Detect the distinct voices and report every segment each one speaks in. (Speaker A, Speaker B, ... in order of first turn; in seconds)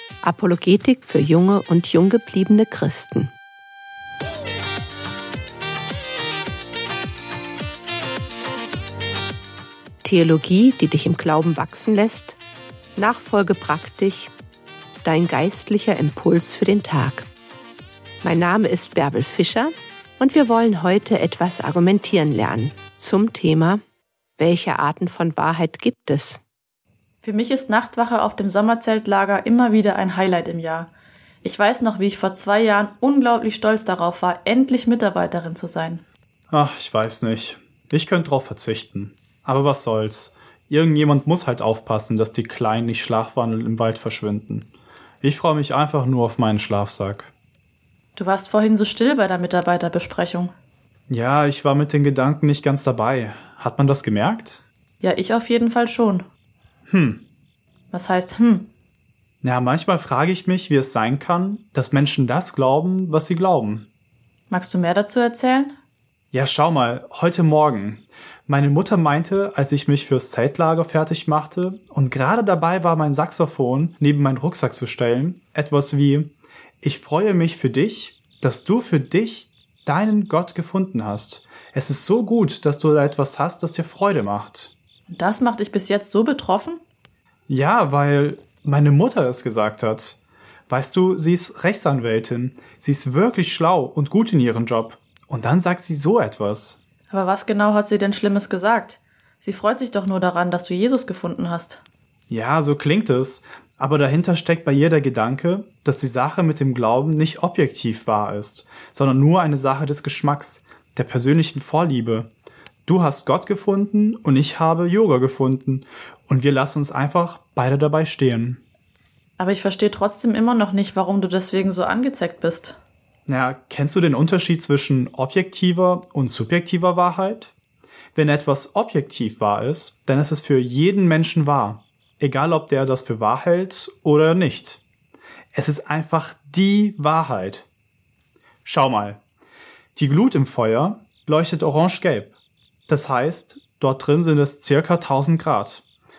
Speaker A: 0.2-3.3, 10.0-12.4, 13.0-14.3, 15.0-17.3, 18.2-23.8, 24.4-26.4
Speaker B: 27.2-30.9, 31.4-36.0, 48.1-50.5, 55.0-56.2, 57.9-58.7, 64.5-65.8, 85.1-86.8, 97.1-101.8, 119.4-122.8
Speaker C: 36.5-44.7, 45.2-47.3, 51.1-54.6, 56.9-57.2, 59.4-63.9, 66.3-84.7, 87.5-90.2, 90.7-96.8, 102.3-112.3, 112.9-118.6, 123.3-127.5, 128.2-134.8, 135.5-137.7, 138.6-139.2, 139.9-142.3, 142.9-145.8